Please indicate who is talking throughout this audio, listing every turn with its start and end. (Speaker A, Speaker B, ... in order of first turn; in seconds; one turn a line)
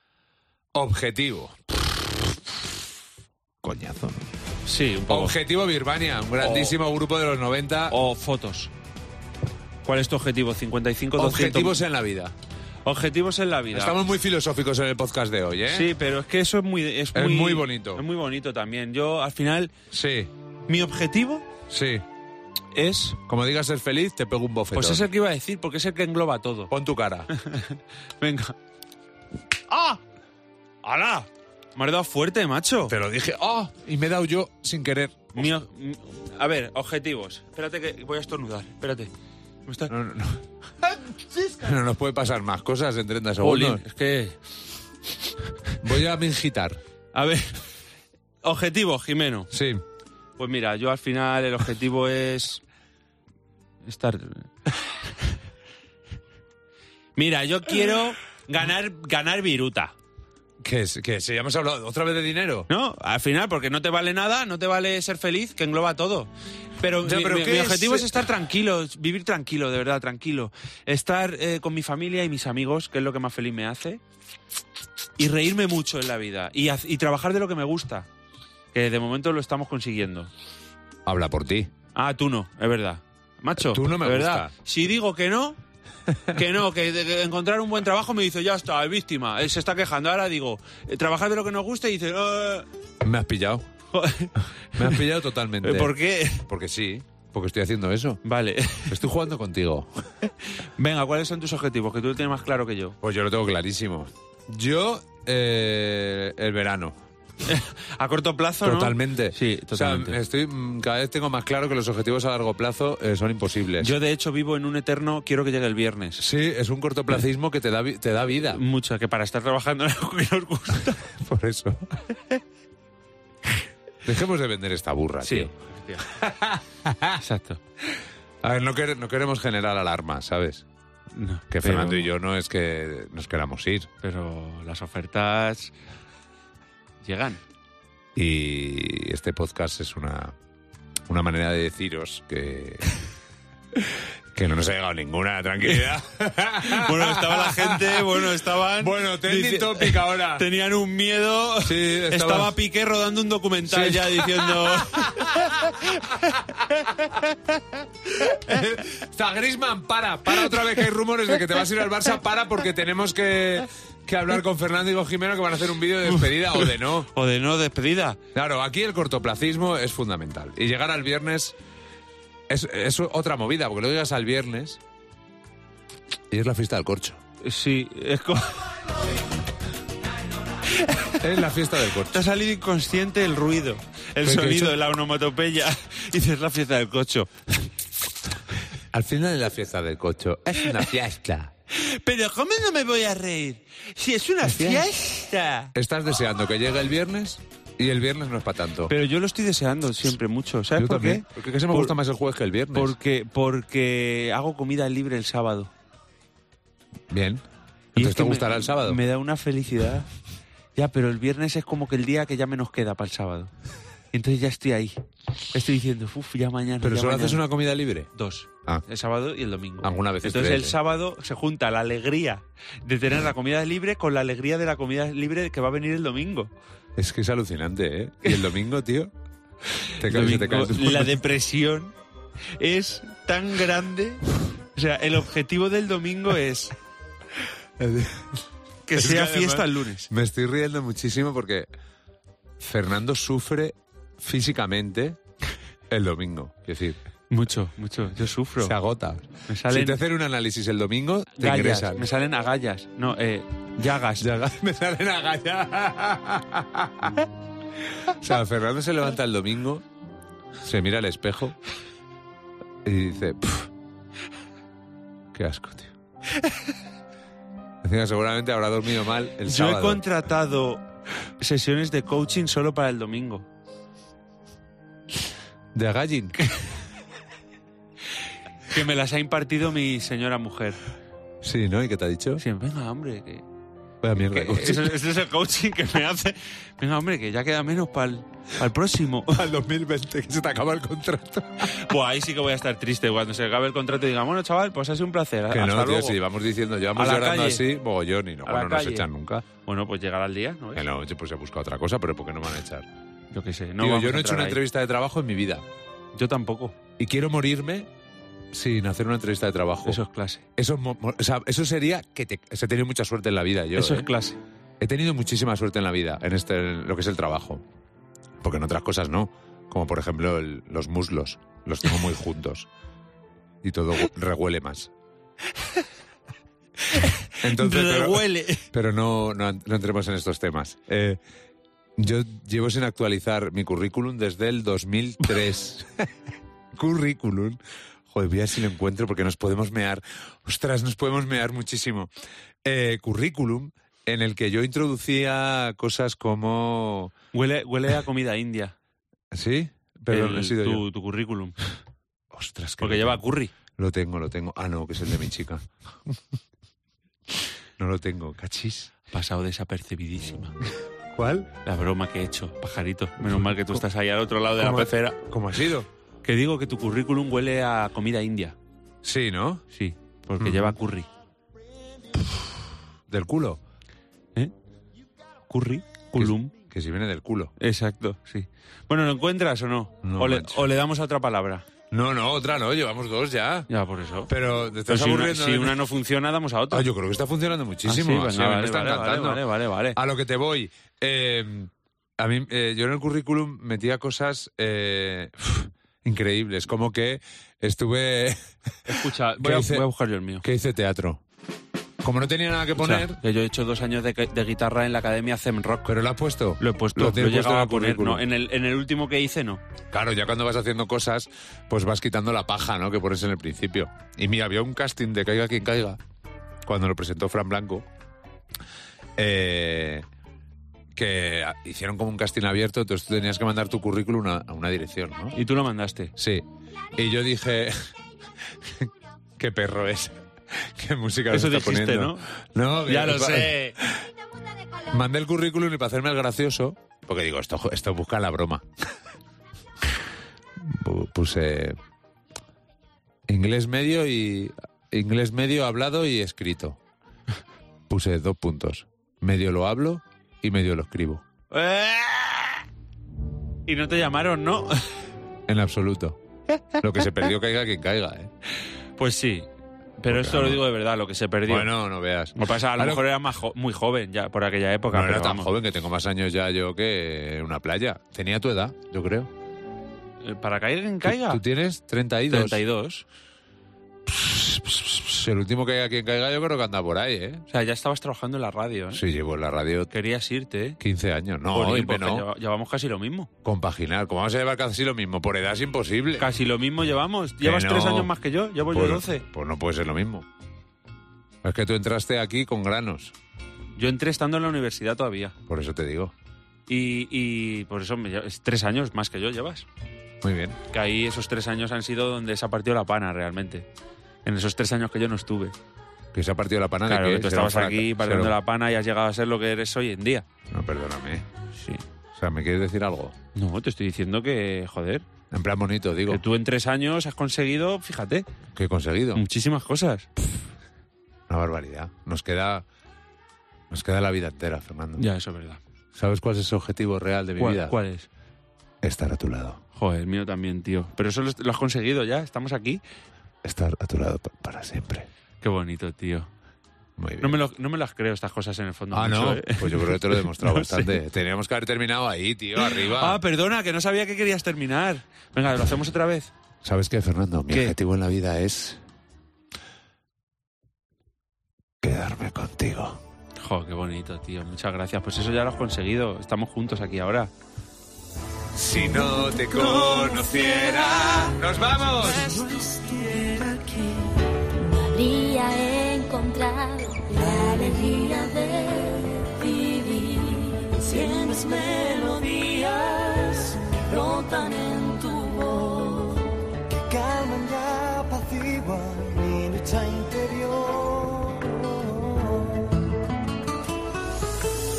Speaker A: 0.7-2.4
Speaker A: 3.6-4.3
Speaker B: 4.6-5.3
Speaker A: 5.1-8.0
Speaker B: 6.4-6.8
Speaker B: 7.9-8.7
Speaker B: 9.8-11.8
Speaker A: 11.2-12.3
Speaker B: 12.8-14.0
Speaker A: 13.7-15.9
Speaker B: 15.7-19.7
Speaker A: 17.1-18.0
Speaker A: 19.9-20.3
Speaker B: 20.7-21.4
Speaker A: 21.7-22.0
Speaker B: 22.7-23.2
Speaker A: 23.2-25.1
Speaker B: 24.7-26.7
Speaker A: 26.7-27.3
Speaker B: 27.3-28.6
Speaker B: 29.7-30.0
Speaker B: 30.8-32.9
Speaker A: 32.9-35.5
Speaker B: 35.3-39.1
Speaker B: 39.6-39.9
Speaker A: 39.9-40.4
Speaker A: 41.5-43.8
Speaker B: 43.4-44.4
Speaker A: 45.8-46.8
Speaker B: 47.1-47.6
Speaker B: 48.4-49.5
Speaker A: 49.5-49.8
Speaker B: 50.4-52.6
Speaker B: 53.8-54.5
Speaker B: 57.1-59.9
Speaker A: 60.6-62.7
Speaker B: 62.7-74.0
Speaker A: 67.0-68.2
Speaker B: 75.2-78.1
Speaker B: 78.7-80.3
Speaker A: 81.0-81.7
Speaker B: 81.9-85.6
Speaker A: 83.6-84.5
Speaker B: 86.3-92.7
Speaker A: 93.0-93.7
Speaker B: 93.9-95.0
Speaker A: 94.8-98.2
Speaker B: 95.6-96.5
Speaker B: 98.2-99.0
Speaker A: 98.9-100.1
Speaker B: 100.4-103.0
Speaker A: 103.0-107.0
Speaker B: 107.4-110.2
Speaker A: 108.6-113.9
Speaker B: 113.8-116.2
Speaker A: 116.2-118.6
Speaker B: 118.5-121.1
Speaker A: 121.0-122.0
Speaker A: 124.0-127.2
Speaker B: 125.2-126.1
Speaker B: 127.2-127.6
Speaker A: 128.4-130.7
Speaker B: 131.1-132.1
Speaker A: 131.5-133.9
Speaker B: 134.0-135.7
Speaker B: 137.0-137.4
Speaker A: 138.1-140.3
Speaker A: 141.1-142.9
Speaker A: 143.8-150.4
Speaker B: 146.6-156.4
Speaker A: 151.6-152.5
Speaker A: 153.7-157.1
Speaker A: 158.1-167.1
Speaker B: 166.1-168.2
Speaker A: 168.3-171.6
Speaker A: 172.5-174.8
Speaker A: 176.3-177.2
Speaker B: 177.4-178.6
Speaker B: 180.7-181.2
Speaker A: 181.2-182.2
Speaker B: 182.1-187.3
Speaker A: 184.2-184.8
Speaker A: 188.9-191.5
Speaker B: 191.7-195.7
Speaker A: 194.4-194.9
Speaker A: 195.7-198.9
Speaker B: 198.9-201.9
Speaker A: 200.7-202.9
Speaker B: 202.7-205.7
Speaker A: 207.1-207.4
Speaker B: 207.9-210.1
Speaker A: 207.9-209.0
Speaker B: 210.8-213.5
Speaker B: 214.1-215.0
Speaker B: 215.5-217.4
Speaker A: 216.8-218.1
Speaker B: 218.1-226.5
Speaker A: 219.8-220.8
Speaker A: 226.9-229.1
Speaker B: 229.8-231.9
Speaker A: 230.0-231.2
Speaker B: 232.6-236.7
Speaker A: 237.8-241.7
Speaker B: 238.9-240.1
Speaker A: 242.6-245.2
Speaker A: 245.9-247.0
Speaker B: 247.3-248.7
Speaker A: 248.6-252.1
Speaker B: 249.5-250.0
Speaker B: 251.4-254.3
Speaker A: 254.2-257.3
Speaker A: 258.0-259.9
Speaker A: 260.6-261.6
Speaker A: 262.8-263.7
Speaker A: 265.3-265.9
Speaker A: 267.8-270.0
Speaker B: 269.4-270.8
Speaker B: 271.4-273.4
Speaker A: 275.7-276.4
Speaker B: 278.7-280.8
Speaker A: 281.4-282.4
Speaker B: 282.4-283.4
Speaker A: 284.0-285.0
Speaker B: 284.3-289.5
Speaker A: 289.3-291.8
Speaker B: 291.7-296.2
Speaker A: 295.5-299.4
Speaker B: 296.9-297.6
Speaker B: 298.4-299.1
Speaker B: 299.6-300.8
Speaker A: 300.7-302.9
Speaker B: 303.3-304.6
Speaker A: 303.8-305.6
Speaker B: 306.1-306.8
Speaker A: 307.0-307.9
Speaker A: 308.5-310.0
Speaker B: 309.8-310.4
Speaker A: 310.6-314.1
Speaker B: 313.8-314.4
Speaker A: 314.8-317.6
Speaker A: 318.4-322.7
Speaker A: 323.6-324.9
Speaker B: 326.9-328.7
Speaker A: 327.4-331.2
Speaker A: 332.0-336.1
Speaker A: 336.7-337.6
Speaker A: 338.1-342.1
Speaker A: 342.6-347.1
Speaker B: 347.3-348.7
Speaker A: 349.3-350.8
Speaker B: 350.1-351.6
Speaker A: 352.3-353.2
Speaker B: 352.8-353.5
Speaker A: 353.7-356.2
Speaker A: 357.8-358.9
Speaker B: 359.0-360.6
Speaker A: 361.1-361.5
Speaker B: 361.6-365.2
Speaker A: 363.3-363.8
Speaker A: 364.6-365.9
Speaker B: 366.2-368.6
Speaker A: 369.0-369.6
Speaker B: 369.7-371.1
Speaker A: 370.4-370.8
Speaker A: 373.1-373.6
Speaker B: 375.5-376.5
Speaker A: 376.1-377.5
Speaker B: 377.6-381.6
Speaker A: 380.0-380.7
Speaker A: 381.9-383.7
Speaker B: 383.7-384.3
Speaker A: 384.3-385.8
Speaker B: 384.9-386.9
Speaker A: 386.7-399.9
Speaker B: 387.8-390.0
Speaker B: 398.9-400.4
Speaker A: 400.4-401.2
Speaker A: 402.0-403.2
Speaker B: 402.7-405.9
Speaker A: 405.9-408.2
Speaker B: 406.6-409.6
Speaker A: 409.9-416.0
Speaker A: 416.6-417.9
Speaker A: 419.2-420.0
Speaker A: 420.9-425.4
Speaker B: 425.3-426.1
Speaker A: 426.1-427.9
Speaker A: 428.6-434.1
Speaker B: 431.3-432.3
Speaker B: 432.9-433.8
Speaker A: 434.9-438.6
Speaker A: 440.6-441.8
Speaker A: 443.3-446.8
Speaker A: 447.9-451.2
Speaker B: 451.5-452.6
Speaker B: 453.6-454.9
Speaker A: 455.5-456.2
Speaker A: 456.8-458.3
Speaker B: 459.0-459.5
Speaker B: 460.0-461.7
Speaker A: 460.1-460.6
Speaker A: 461.5-463.1
Speaker B: 462.3-465.5
Speaker A: 464.9-469.3
Speaker B: 470.2-471.4
Speaker A: 471.0-472.6
Speaker B: 472.3-473.0
Speaker A: 474.1-477.4
Speaker B: 477.5-479.0
Speaker A: 478.9-479.9
Speaker B: 479.9-480.8
Speaker A: 480.8-482.3
Speaker B: 481.5-483.3
Speaker A: 483.4-486.3
Speaker B: 486.2-489.2
Speaker A: 487.4-488.1
Speaker A: 488.7-490.3
Speaker A: 491.4-493.1
Speaker B: 493.8-495.3
Speaker A: 495.5-496.1
Speaker B: 496.7-499.7
Speaker A: 500.2-500.6
Speaker B: 500.7-503.7
Speaker B: 504.2-505.5
Speaker A: 506.1-508.4
Speaker B: 506.9-510.2
Speaker A: 510.5-511.2
Speaker B: 511.5-511.8
Speaker A: 512.1-513.1
Speaker B: 513.3-515.0
Speaker A: 515.3-516.2
Speaker B: 516.1-518.2
Speaker A: 518.5-519.2
Speaker B: 519.1-520.1
Speaker A: 521.3-522.6
Speaker A: 523.7-525.0
Speaker B: 525.0-525.6
Speaker A: 525.9-527.8
Speaker B: 527.4-528.1
Speaker A: 528.8-529.6
Speaker B: 529.7-532.8
Speaker A: 533.4-535.1
Speaker B: 535.4-536.3
Speaker A: 537.0-537.4
Speaker B: 537.2-541.0
Speaker A: 538.9-543.2
Speaker B: 542.6-546.3
Speaker A: 546.6-548.8
Speaker A: 551.8-553.0
Speaker B: 553.4-557.3
Speaker A: 558.5-562.5
Speaker C: 559.3-561.3
Speaker C: 562.1-576.3
Speaker D: 576.9-582.5